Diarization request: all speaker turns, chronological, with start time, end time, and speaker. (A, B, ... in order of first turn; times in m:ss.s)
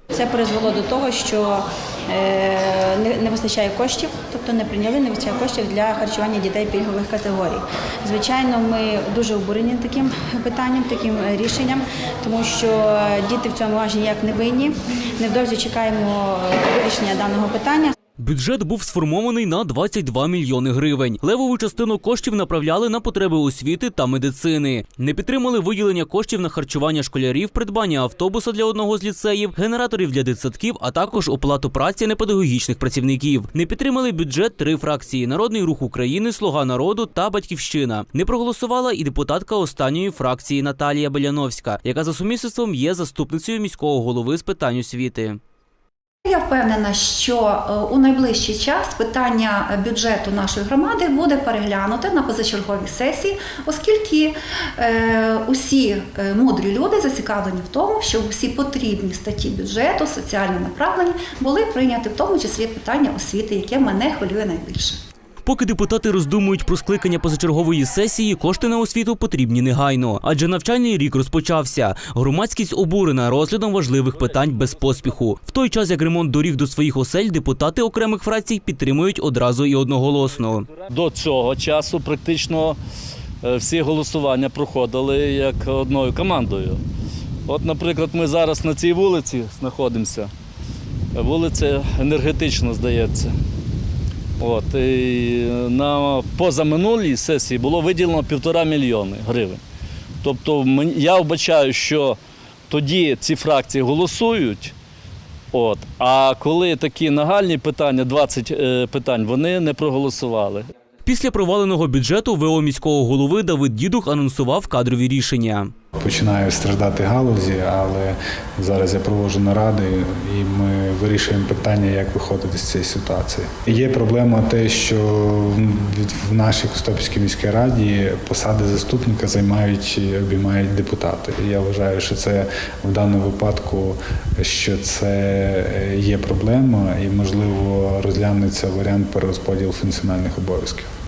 0:00.1-0:17.9 A
0:18.2-0:45.4 B
0:46.2-1:05.0 C
1:05.4-1:20.7 B
1:20.9-1:22.8 D
1:23.4-1:26.8 D
1:27.4-1:30.3 D
1:31.1-1:33.3 D
1:34.4-1:39.6 D
1:40.2-1:42.2 D
1:42.7-1:44.7 D
1:45.5-1:50.7 D
1:51.0-1:55.7 B
1:56.0-2:20.9 E